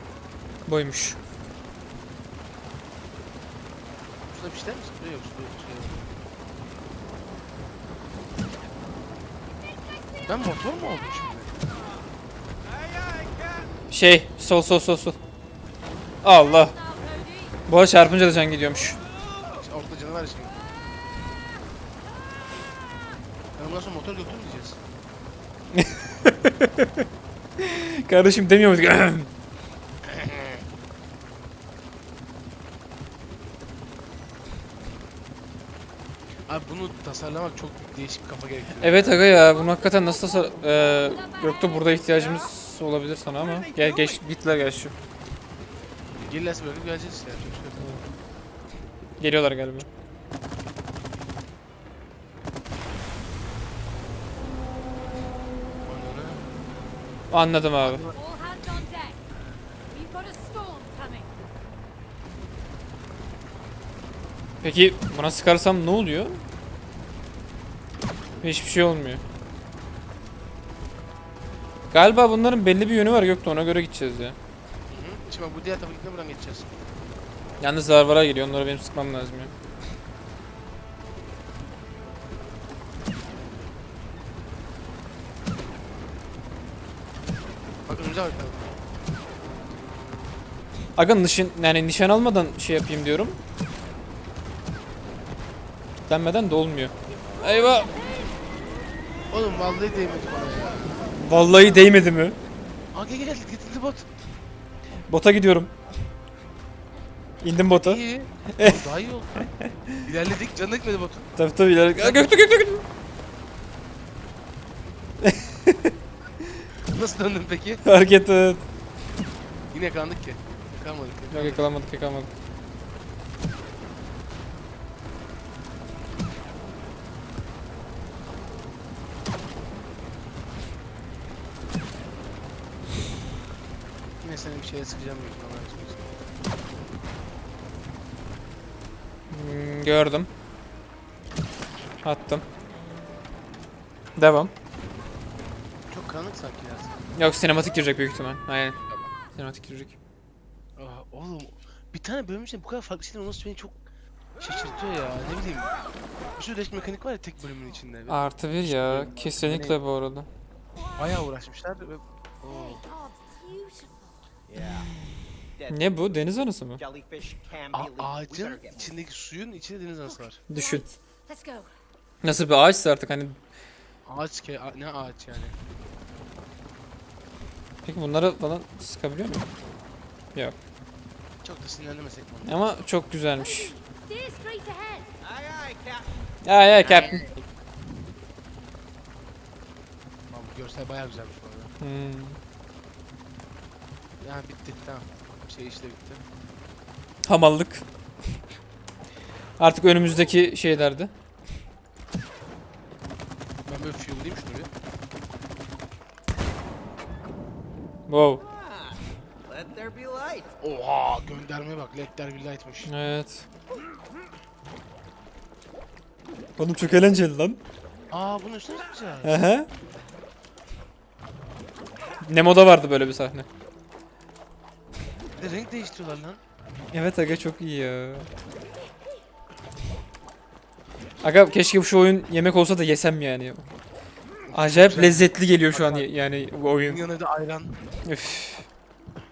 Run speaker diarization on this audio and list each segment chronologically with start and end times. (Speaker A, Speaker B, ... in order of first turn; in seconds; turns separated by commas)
Speaker A: 0.7-1.2, Speaker B: 4.3-6.1, Speaker C: 9.6-10.6, Speaker B: 10.3-11.6, Speaker D: 12.6-13.8, Speaker A: 13.9-15.2, Speaker A: 16.2-16.7, Speaker C: 16.2-17.6, Speaker A: 17.7-19.0, Speaker D: 19.3-19.6, Speaker B: 19.6-20.5, Speaker B: 23.6-24.8, Speaker A: 25.7-27.1, Speaker A: 27.6-29.3, Speaker B: 30.1-30.6, Speaker B: 36.5-39.2, Speaker A: 38.8-44.9, Speaker C: 39.2-42.4, Speaker D: 43.4-44.2, Speaker B: 46.2-47.8, Speaker A: 47.8-48.0, Speaker A: 49.2-49.9, Speaker B: 55.9-56.5, Speaker A: 57.3-58.0, Speaker B: 57.8-58.2, Speaker C: 58.1-59.2, Speaker C: 59.9-61.3, Speaker A: 64.6-66.4, Speaker A: 68.4-69.2, Speaker A: 71.9-74.4, Speaker B: 74.9-76.8, Speaker A: 77.6-79.5, Speaker B: 87.9-88.8, Speaker A: 91.0-93.4, Speaker A: 96.1-97.9, Speaker C: 97.4-98.4, Speaker B: 99.3-101.1, Speaker A: 101.2-102.4, Speaker B: 102.9-104.1, Speaker A: 105.1-105.7, Speaker A: 107.4-108.0, Speaker B: 107.7-109.5, Speaker A: 108.5-108.9, Speaker A: 109.4-109.7, Speaker B: 110.0-111.3, Speaker A: 111.4-112.8, Speaker B: 112.0-112.3, Speaker A: 115.2-115.9, Speaker B: 116.9-117.8, Speaker A: 117.8-118.6, Speaker B: 119.7-121.7, Speaker A: 121.3-122.3, Speaker B: 134.2-136.2, Speaker A: 139.3-140.3, Speaker A: 142.0-142.4, Speaker A: 144.2-144.5, Speaker B: 145.9-147.0, Speaker A: 147.2-148.8, Speaker A: 149.4-149.9, Speaker B: 150.8-153.8, Speaker B: 154.4-155.7, Speaker B: 156.4-159.8, Speaker A: 158.1-160.3, Speaker B: 161.0-162.8, Speaker C: 162.5-164.2, Speaker D: 164.5-164.9, Speaker D: 165.6-166.2, Speaker A: 165.7-166.8, Speaker D: 166.8-168.9, Speaker B: 167.7-170.4, Speaker C: 170.1-171.7, Speaker A: 170.5-170.8, Speaker A: 172.2-173.4, Speaker B: 174.1-175.6, Speaker A: 177.9-179.4, Speaker B: 181.4-182.7, Speaker A: 182.5-183.7, Speaker C: 183.3-185.1, Speaker D: 185.2-186.1, Speaker A: 186.4-187.4, Speaker B: 186.8-187.3, Speaker B: 190.3-191.7, Speaker A: 191.8-192.4, Speaker B: 194.2-196.2, Speaker A: 197.2-197.8, Speaker A: 199.6-201.1, Speaker B: 203.7-204.7, Speaker A: 208.1-208.4, Speaker D: 208.4-210.5, Speaker B: 210.6-212.9, Speaker A: 212.9-213.5, Speaker A: 216.6-217.6, Speaker B: 218.1-219.4, Speaker A: 219.2-219.7, Speaker A: 222.2-223.5, Speaker B: 225.4-226.4, Speaker A: 226.9-228.3, Speaker A: 231.2-233.6, Speaker B: 234.5-236.1, Speaker A: 234.6-237.0, Speaker B: 236.7-237.8, Speaker A: 238.1-238.7